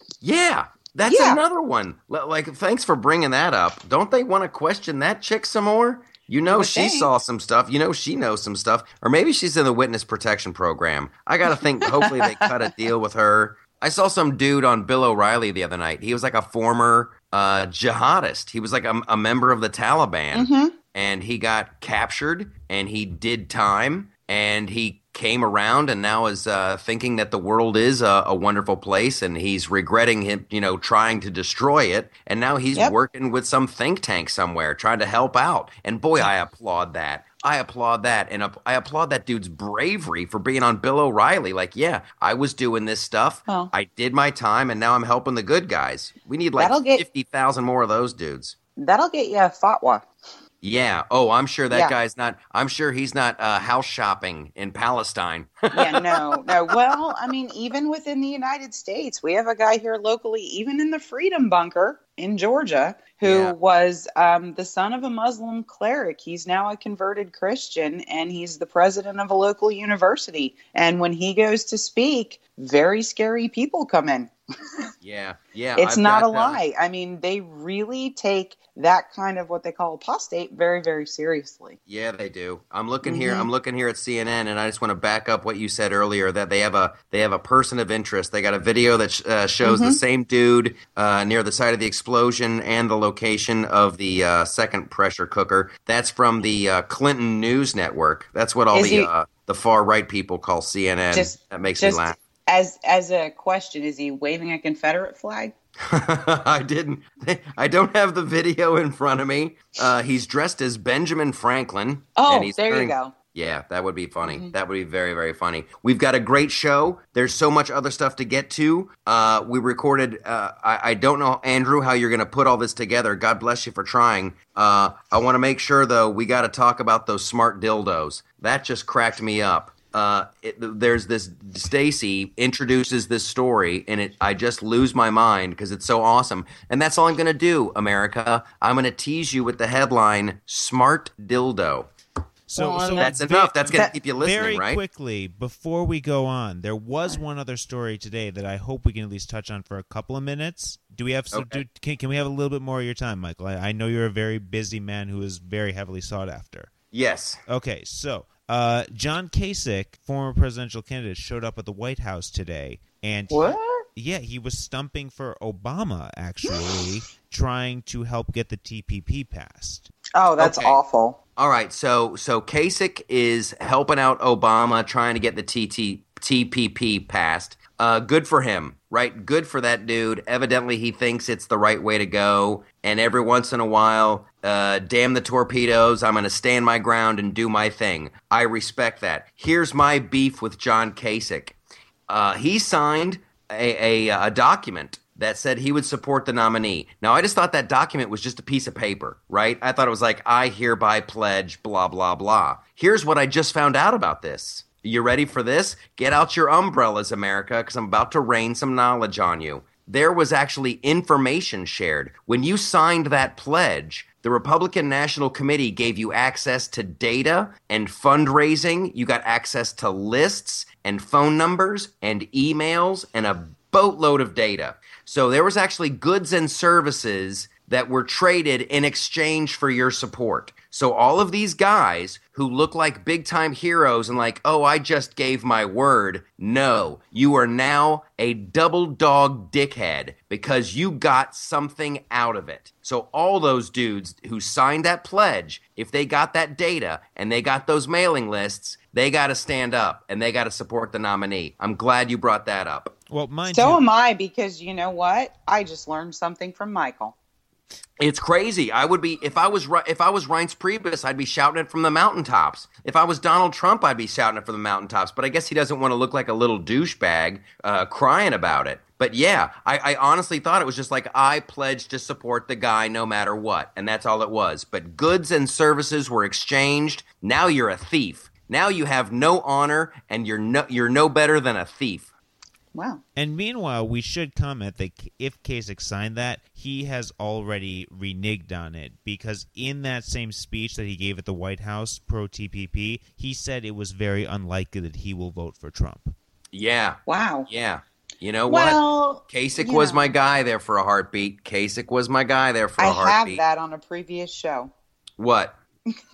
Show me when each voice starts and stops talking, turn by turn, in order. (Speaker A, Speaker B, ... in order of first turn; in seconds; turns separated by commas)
Speaker A: 0.2-48.6, Speaker B: 1.1-1.4, Speaker B: 6.5-7.1, Speaker B: 11.8-12.5, Speaker B: 20.3-20.8, Speaker B: 43.5-43.7, Speaker B: 46.6-47.1, Speaker B: 48.8-50.1, Speaker A: 50.6-56.8, Speaker B: 55.7-74.3, Speaker A: 63.2-63.5, Speaker A: 75.0-76.6, Speaker B: 75.8-81.8, Speaker A: 81.9-102.2, Speaker B: 83.0-83.5, Speaker B: 89.6-90.0, Speaker B: 98.7-99.1, Speaker B: 101.1-105.5, Speaker A: 105.8-141.9, Speaker B: 112.2-113.1, Speaker B: 114.3-114.5, Speaker C: 142.5-156.7, Speaker B: 142.6-143.1, Speaker A: 143.0-144.8, Speaker A: 151.3-151.6, Speaker A: 156.9-157.4, Speaker C: 157.5-169.9, Speaker B: 163.3-163.8, Speaker B: 166.5-166.8, Speaker B: 170.1-171.2, Speaker A: 170.4-170.8, Speaker A: 171.4-191.6, Speaker A: 192.1-252.9, Speaker C: 253.1-253.8, Speaker B: 253.5-257.1, Speaker A: 258.0-282.1, Speaker B: 282.7-283.0, Speaker C: 283.2-296.1, Speaker A: 296.5-303.4, Speaker B: 297.1-297.5, Speaker B: 298.5-300.1, Speaker B: 302.8-304.7, Speaker A: 305.2-305.6